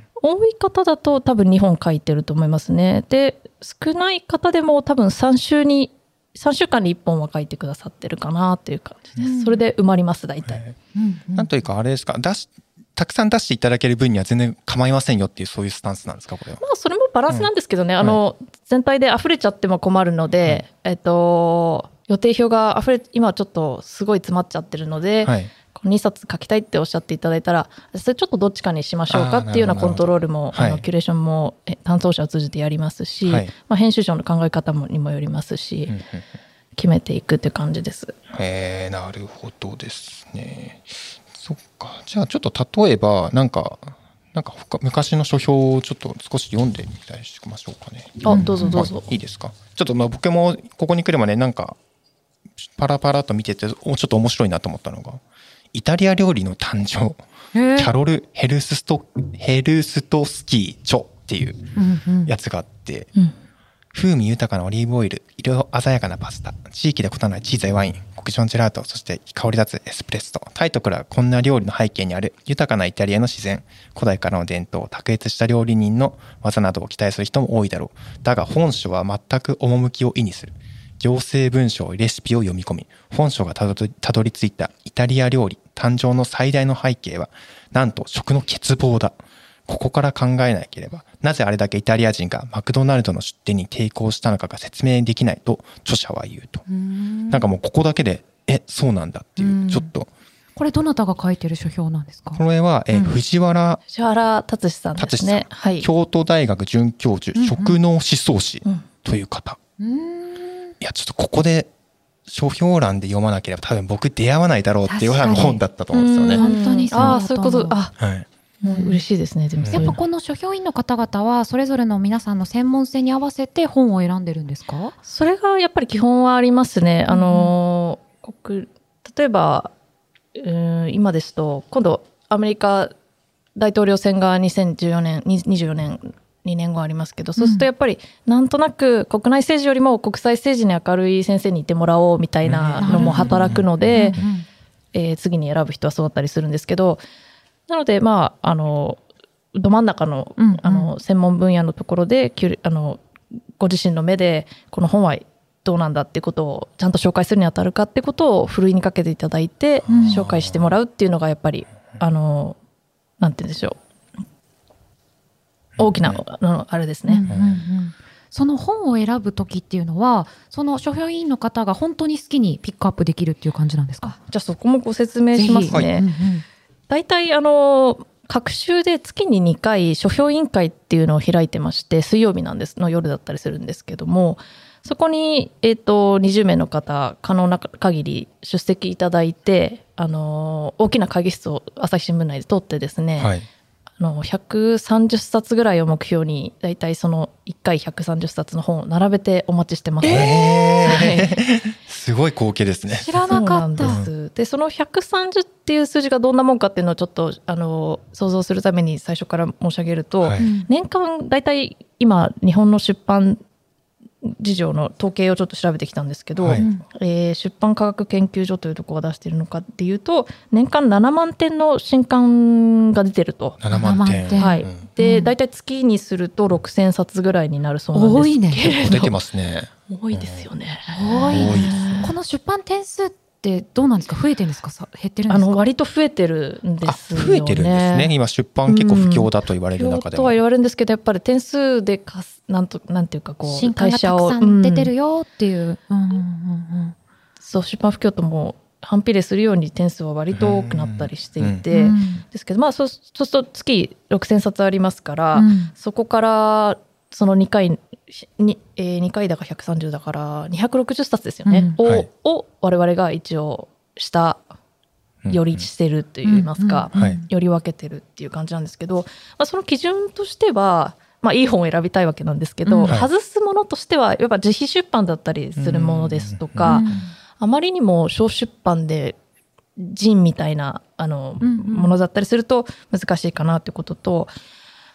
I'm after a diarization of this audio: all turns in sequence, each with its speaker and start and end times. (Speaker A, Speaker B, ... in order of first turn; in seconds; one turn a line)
Speaker A: 0.2-10.6
Speaker B: 9.2-9.6
Speaker C: 10.5-10.8
Speaker B: 10.9-11.5
Speaker C: 11.3-16.6
Speaker A: 16.6-35.9
Speaker C: 25.2-25.5
Speaker C: 29.1-30.8
Speaker C: 33.2-33.5
Speaker C: 35.9-36.2
Speaker A: 36.8-38.1
Speaker C: 38.3-51.8
Speaker A: 48.2-49.1
Speaker B: 48.3-48.8
Speaker C: 52.6-55.2
Speaker C: 55.7-57.2
Speaker B: 57.5-57.9
Speaker C: 57.8-63.1
Speaker B: 61.8-62.3
Speaker C: 63.9-96.6
Speaker B: 96.7-97.4
Speaker C: 97.3-100.1
Speaker B: 99.4-99.9
Speaker B: 100.5-102.4
Speaker C: 102.3-103.8
Speaker B: 102.9-103.2
Speaker A: 103.9-105.9
Speaker C: 105.0-109.6
Speaker B: 107.3-107.8
Speaker B: 109.8-110.7
Speaker C: 110.8-111.7
Speaker C: 112.3-116.4
Speaker B: 114.8-115.6
Speaker A: 115.9-117.9
Speaker B: 116.3-117.8
Speaker C: 118.0-118.2
Speaker A: 118.6-120.0
Speaker B: 118.6-119.0
Speaker C: 119.6-119.9
Speaker B: 119.7-124.9
Speaker A: 125.0-129.7
Speaker B: 127.1-127.5
Speaker A: 130.3-132.9
Speaker A: 133.6-144.2
Speaker B: 137.4-137.7
Speaker C: 142.4-144.2
Speaker B: 142.8-144.5
Speaker A: 144.9-147.0
Speaker A: 147.7-149.0
Speaker A: 149.5-153.0
Speaker B: 150.4-150.9
Speaker A: 153.6-162.6
Speaker C: 159.8-160.7
Speaker B: 159.9-160.2
Speaker A: 163.2-163.8
Speaker C: 165.8-166.2
Speaker A: 165.8-167.3
Speaker B: 167.1-174.2
Speaker C: 167.3-167.6
Speaker A: 174.1-176.1
Speaker B: 175.3-176.4
Speaker A: 176.9-193.3
Speaker C: 193.2-193.4
Speaker A: 194.0-201.4
Speaker C: 200.0-203.2
Speaker B: 202.9-204.0
Speaker A: 203.2-213.4
Speaker C: 203.8-204.1
Speaker C: 210.2-210.5
Speaker B: 210.4-210.7
Speaker A: 214.2-223.6
Speaker C: 216.4-216.7
Speaker B: 216.6-216.8
Speaker C: 223.6-224.8
Speaker B: 223.7-225.3
Speaker A: 224.3-229.2
Speaker B: 227.9-229.0
Speaker C: 228.8-230.5
Speaker A: 229.9-232.1
Speaker B: 230.9-235.6
Speaker C: 231.3-232.0
Speaker A: 235.3-238.1
Speaker C: 236.8-240.4
Speaker A: 238.7-244.9
Speaker B: 243.4-246.9
Speaker A: 247.4-264.4
Speaker C: 250.3-251.6
Speaker B: 251.7-252.2
Speaker B: 255.3-255.7
Speaker B: 261.4-261.7
Speaker C: 261.8-262.1
Speaker C: 265.2-265.6
Speaker A: 265.3-276.9
Speaker B: 266.2-267.2
Speaker C: 266.9-267.2
Speaker B: 272.6-272.9
Speaker C: 275.6-277.0
Speaker B: 276.6-277.1
Speaker A: 277.4-279.2
Speaker A: 279.8-284.3
Speaker B: 281.4-281.9